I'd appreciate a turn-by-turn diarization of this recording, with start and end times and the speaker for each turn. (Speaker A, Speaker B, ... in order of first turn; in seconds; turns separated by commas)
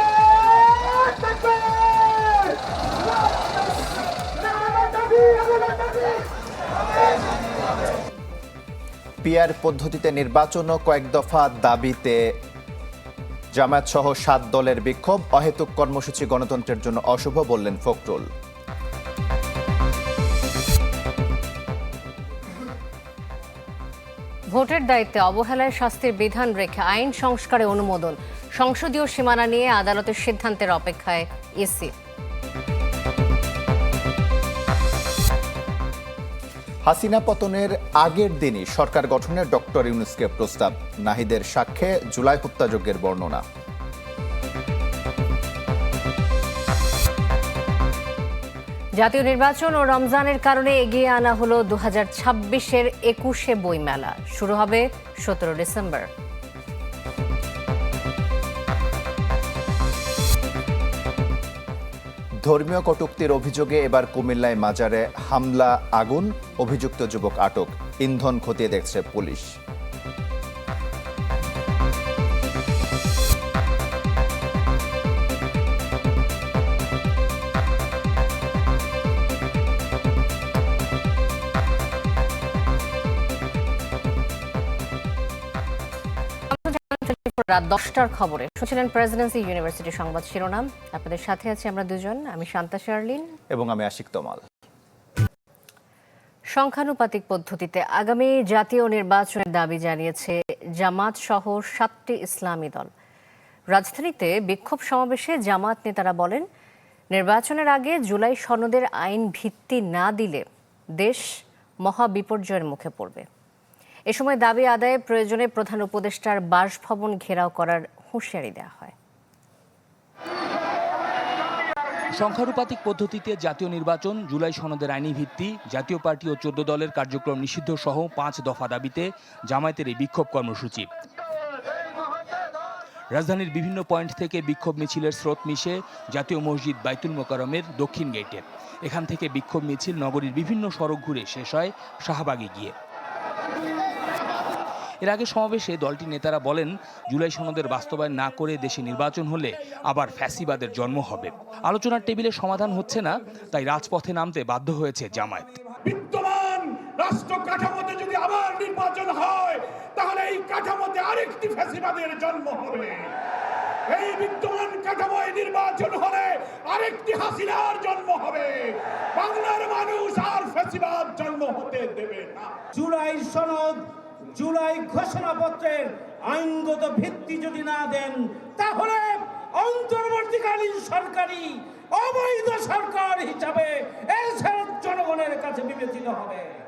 Speaker A: 9.2-12.3, Speaker A: 13.6-18.3, Speaker B: 24.5-31.9, Speaker A: 36.9-43.4, Speaker B: 49.0-56.1, Speaker A: 62.5-69.5, Speaker B: 86.5-93.3, Speaker A: 93.5-94.4, Speaker B: 96.6-102.9, Speaker B: 103.7-106.5, Speaker B: 107.2-110.4, Speaker B: 111.0-111.3, Speaker B: 111.8-113.3, Speaker B: 114.1-118.9, Speaker C: 122.1-130.9, Speaker C: 133.1-142.7, Speaker C: 145.0-155.5, Speaker D: 155.8-163.1, Speaker D: 163.9-172.6, Speaker E: 172.8-173.8, Speaker E: 174.3-186.6